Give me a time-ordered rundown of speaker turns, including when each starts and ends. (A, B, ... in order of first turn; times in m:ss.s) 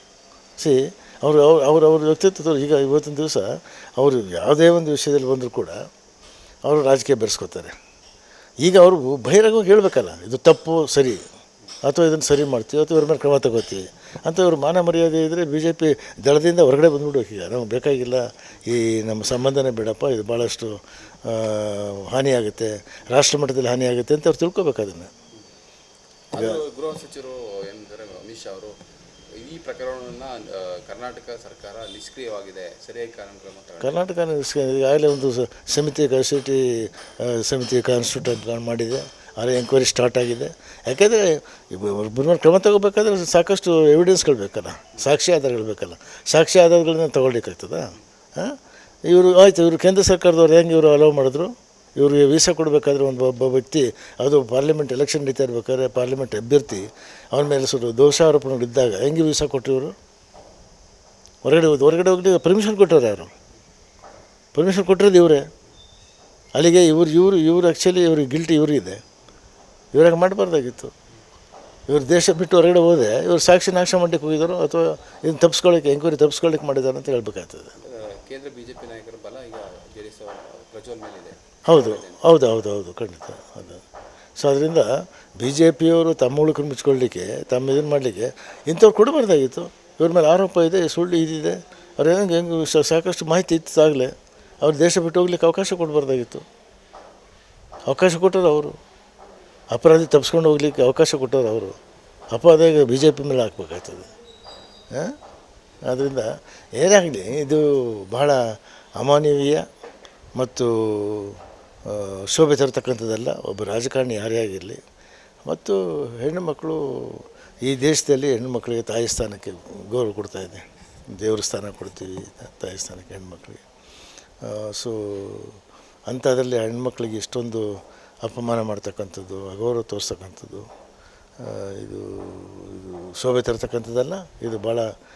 0:00.6-0:05.8 A
0:06.7-0:07.8 A
0:08.6-0:11.2 A
0:11.8-0:25.1 A
0:26.3-0:28.8 B
0:26.4-0:26.6 A
0:29.4-0:34.1 B
0:33.8-1:00.0 A
1:01.4-1:03.3 A
1:04.5-1:05.5 A
1:06.6-1:09.0 A
1:09.9-1:10.9 A
1:11.9-1:17.8 A
1:17.8-1:22.4 B
1:21.7-1:23.8 A
1:24.4-1:36.5 A
1:37.9-1:38.8 A
1:39.7-1:41.8 A
1:42.3-1:44.1 A
1:45.9-1:49.6 A
1:50.4-1:54.8 A
1:55.4-2:03.6 A
2:04.4-2:07.7 A
2:08.2-2:10.7 A
2:11.4-2:14.9 A